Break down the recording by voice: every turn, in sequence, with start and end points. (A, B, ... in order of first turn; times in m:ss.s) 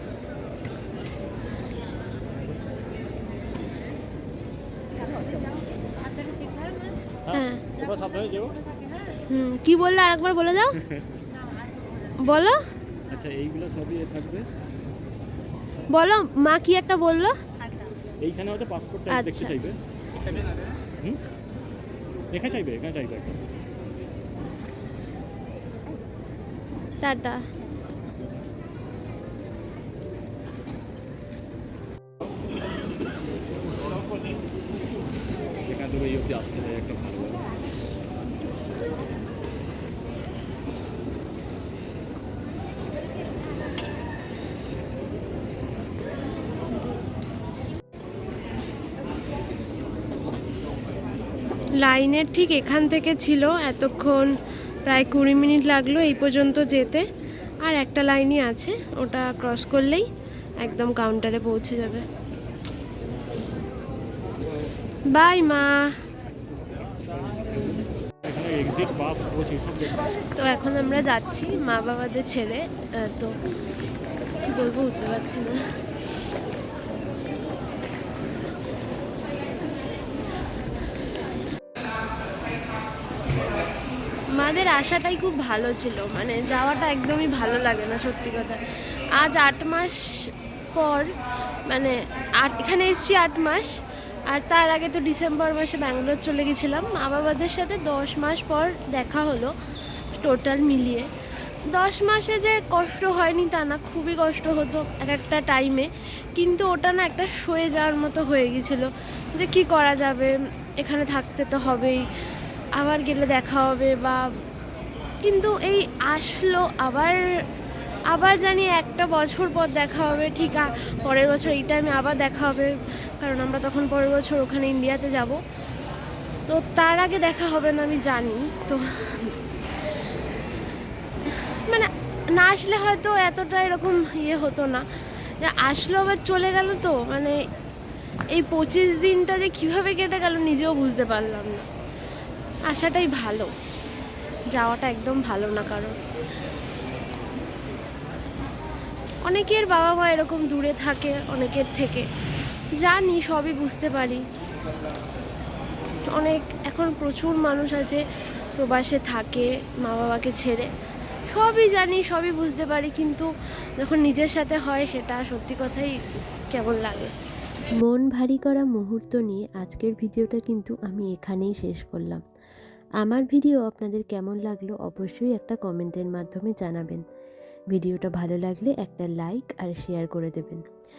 0:07.2-0:08.6 A
0:07.3-0:07.6 B
0:09.3-0:10.8 B
0:12.2-0:12.6 B
0:13.1-0:14.5 A
0:15.9-0:17.3 B
0:18.2-0:20.4 A
0:19.1-0:19.5 B
0:22.3-0:23.4 A
0:27.0-0:27.4 B
0:35.6-0:37.4 A
0:51.8-0:54.3 B
0:54.8-0:57.0 B
0:57.6-1:00.0 B
1:00.6-1:02.0 B
1:05.1-1:05.9 B
1:08.2-1:10.1 A
1:10.3-1:13.3 B
1:14.4-1:15.6 B
1:24.3-1:28.6 B
1:29.2-1:30.0 B
1:30.7-1:31.1 B
1:31.7-1:33.7 B
1:34.3-1:39.5 B
1:40.1-1:41.1 B
1:41.7-1:52.1 B
1:52.8-1:54.2 B
1:55.2-1:57.2 B
1:58.1-2:05.4 B
2:06.5-2:09.3 B
2:11.5-2:14.8 B
2:15.4-2:17.4 B
2:18.3-2:21.7 B
2:22.7-2:23.5 B
2:24.5-2:26.0 B
2:29.2-2:32.1 B
2:32.8-2:34.2 B
2:36.1-2:38.0 B
2:38.6-2:40.7 B
2:41.3-2:43.3 B
2:43.8-2:46.0 B
2:46.5-2:47.1 B
2:47.8-2:52.2 C
2:53.0-2:57.0 C
2:57.7-3:00.6 C